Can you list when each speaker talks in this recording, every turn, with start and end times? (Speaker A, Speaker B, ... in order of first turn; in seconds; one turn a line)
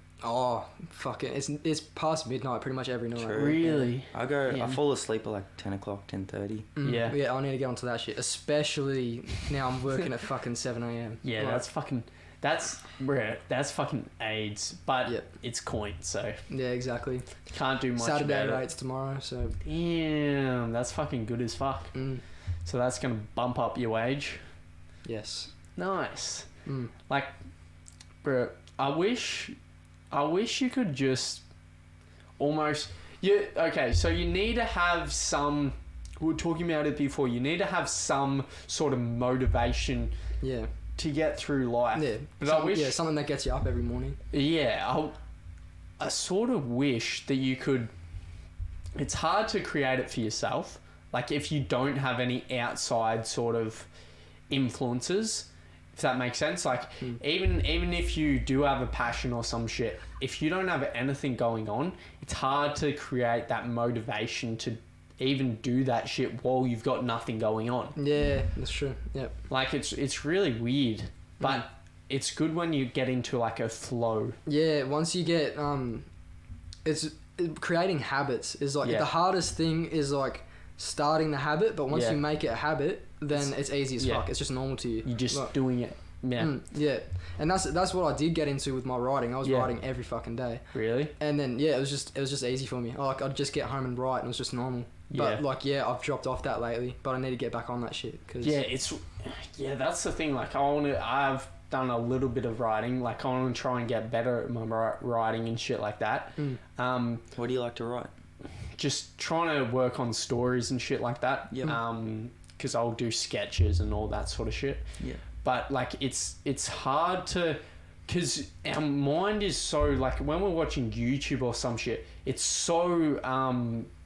Speaker A: 0.2-3.9
Speaker B: 3.2-6.7
Speaker C: 3.4-4.8
Speaker A: 6.8-11.6
Speaker C: 6.8-7.2
Speaker C: 11.2-16.4
Speaker A: 16.5-17.3
Speaker C: 17.5-18.6
Speaker A: 18.0-19.6
Speaker C: 19.6-21.9
Speaker A: 21.9-22.2
Speaker C: 22.6-24.4
Speaker A: 25.1-25.5
Speaker C: 25.8-26.5
Speaker A: 26.7-26.9
Speaker C: 28.2-29.6
Speaker C: 30.1-31.4
Speaker C: 32.4-40.1
Speaker A: 40.4-40.7
Speaker C: 41.0-43.0
Speaker A: 42.0-44.2
Speaker C: 44.3-45.2
Speaker C: 46.0-47.9
Speaker C: 49.0-53.9
Speaker C: 54.5-68.0
Speaker A: 68.0-69.4
Speaker C: 69.5-74.4
Speaker A: 74.5-76.1
Speaker A: 76.8-85.5
Speaker C: 78.8-79.1
Speaker C: 81.9-82.2
Speaker C: 83.3-84.3
Speaker C: 85.0-86.6
Speaker A: 86.4-90.7
Speaker C: 89.4-89.7
Speaker C: 90.7-91.1
Speaker A: 91.2-98.6
Speaker C: 95.1-95.4
Speaker C: 98.4-107.2
Speaker B: 107.3-108.1
Speaker C: 108.8-114.9
Speaker B: 111.5-111.8
Speaker C: 115.4-123.9